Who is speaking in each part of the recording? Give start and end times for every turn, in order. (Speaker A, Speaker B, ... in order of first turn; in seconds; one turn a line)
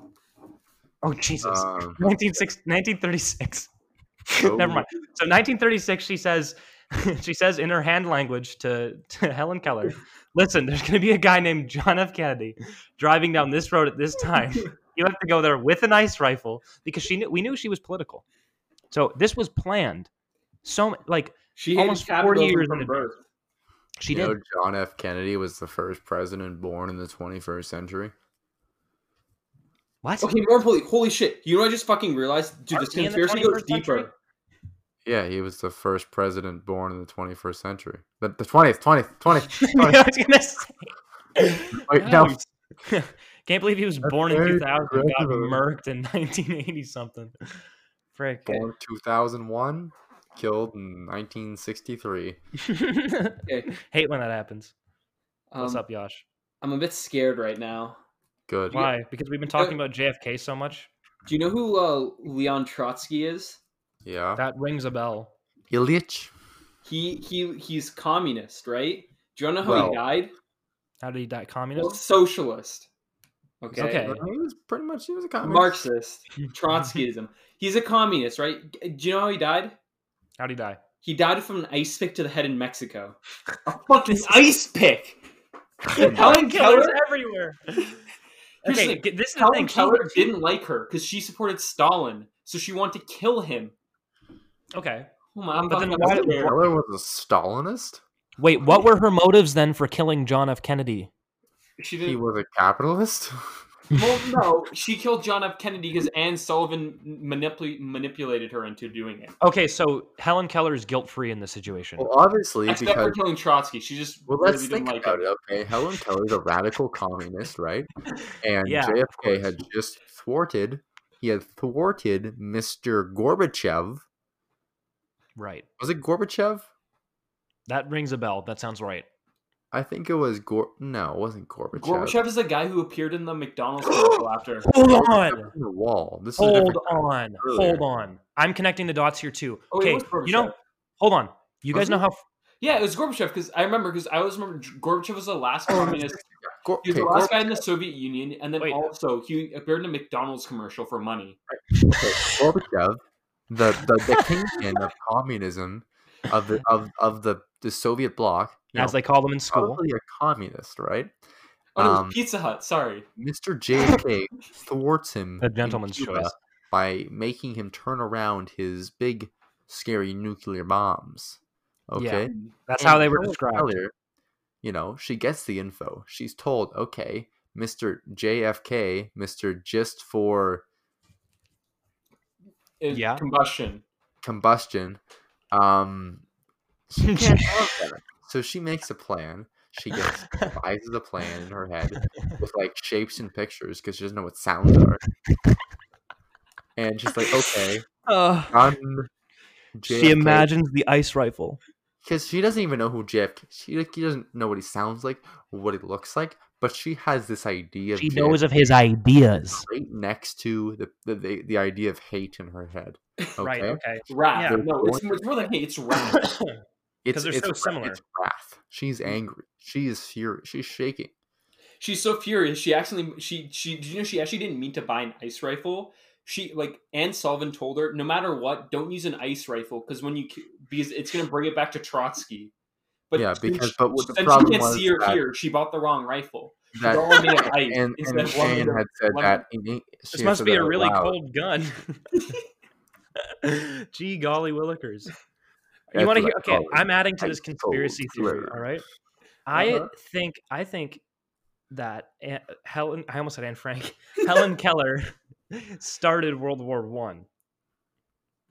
Speaker A: 1.0-3.7
Speaker B: 1.4-2.1
Speaker A: 4.3-18.2
Speaker B: 4.4-4.9
Speaker A: 18.9-20.1
Speaker A: 20.6-23.0
Speaker C: 21.6-23.2
Speaker A: 24.0-24.4
Speaker B: 24.1-28.1
Speaker A: 30.0-30.3
Speaker C: 30.2-34.1
Speaker A: 32.7-34.1
Speaker B: 35.0-40.0
Speaker A: 39.6-47.3
Speaker B: 41.8-42.4
Speaker B: 44.0-45.6
Speaker A: 48.1-48.6
Speaker B: 48.5-52.4
Speaker A: 52.7-54.7
Speaker C: 55.5-55.8
Speaker A: 55.6-56.2
Speaker C: 56.6-58.0
Speaker B: 58.5-58.9
Speaker A: 58.7-60.9
Speaker C: 61.2-63.6
Speaker B: 64.0-64.4
Speaker A: 64.4-65.3
Speaker B: 65.7-66.3
Speaker C: 66.8-70.3
Speaker B: 69.6-70.0
Speaker A: 71.0-72.0
Speaker C: 71.8-72.9
Speaker C: 73.6-74.0
Speaker B: 73.7-75.8
Speaker A: 73.8-74.2
Speaker C: 75.4-79.8
Speaker A: 76.4-77.0
Speaker A: 80.4-80.8
Speaker C: 81.0-85.2
Speaker A: 84.1-84.3
Speaker A: 85.9-88.0
Speaker C: 85.9-87.0
Speaker B: 86.0-86.3
Speaker A: 88.6-90.3
Speaker C: 88.6-93.7
Speaker A: 94.7-95.1
Speaker C: 95.3-96.6
Speaker A: 95.7-96.6
Speaker B: 96.0-98.0
Speaker A: 98.4-101.1
Speaker C: 101.8-102.2
Speaker B: 102.0-103.6
Speaker C: 104.0-109.3
Speaker A: 109.4-112.1
Speaker B: 112.0-113.2
Speaker C: 112.7-115.2
Speaker B: 114.3-124.0
Speaker A: 118.6-119.6
Speaker A: 125.3-125.7
Speaker B: 125.8-126.7
Speaker A: 127.7-129.1
Speaker B: 129.7-132.2
Speaker C: 131.7-134.7
Speaker A: 134.7-135.5
Speaker B: 134.8-137.8
Speaker A: 136.4-142.2
Speaker C: 139.7-140.5
Speaker B: 141.7-142.0
Speaker C: 142.6-146.2
Speaker B: 145.7-147.6
Speaker C: 146.8-151.4
Speaker B: 151.5-159.0
Speaker A: 154.1-154.5
Speaker A: 158.8-159.8
Speaker B: 159.5-161.1
Speaker C: 161.7-163.1
Speaker B: 161.8-162.2
Speaker B: 163.2-173.9
Speaker A: 165.4-166.3
Speaker A: 171.9-173.7
Speaker B: 174.6-180.6
Speaker C: 182.8-183.8
Speaker A: 182.9-183.2
Speaker B: 184.2-185.0
Speaker B: 185.5-186.2
Speaker B: 186.9-195.0
Speaker A: 187.0-187.7
Speaker B: 196.8-197.9
Speaker A: 197.2-198.7
Speaker B: 198.5-199.1
Speaker B: 199.8-200.5
Speaker A: 199.8-201.6
Speaker B: 202.0-208.4
Speaker A: 207.9-209.7
Speaker B: 209.6-213.8
Speaker A: 213.4-214.6
Speaker C: 214.1-216.4
Speaker B: 214.4-215.2
Speaker A: 216.0-216.6
Speaker B: 217.0-221.1
Speaker A: 217.1-218.0
Speaker C: 221.8-232.5
Speaker C: 233.1-239.4
Speaker B: 233.2-235.2
Speaker B: 236.7-241.2
Speaker A: 240.1-242.4
Speaker A: 243.4-245.1
Speaker A: 245.9-248.8
Speaker B: 245.9-248.6
Speaker A: 249.4-251.0
Speaker B: 249.5-249.9
Speaker A: 251.7-257.3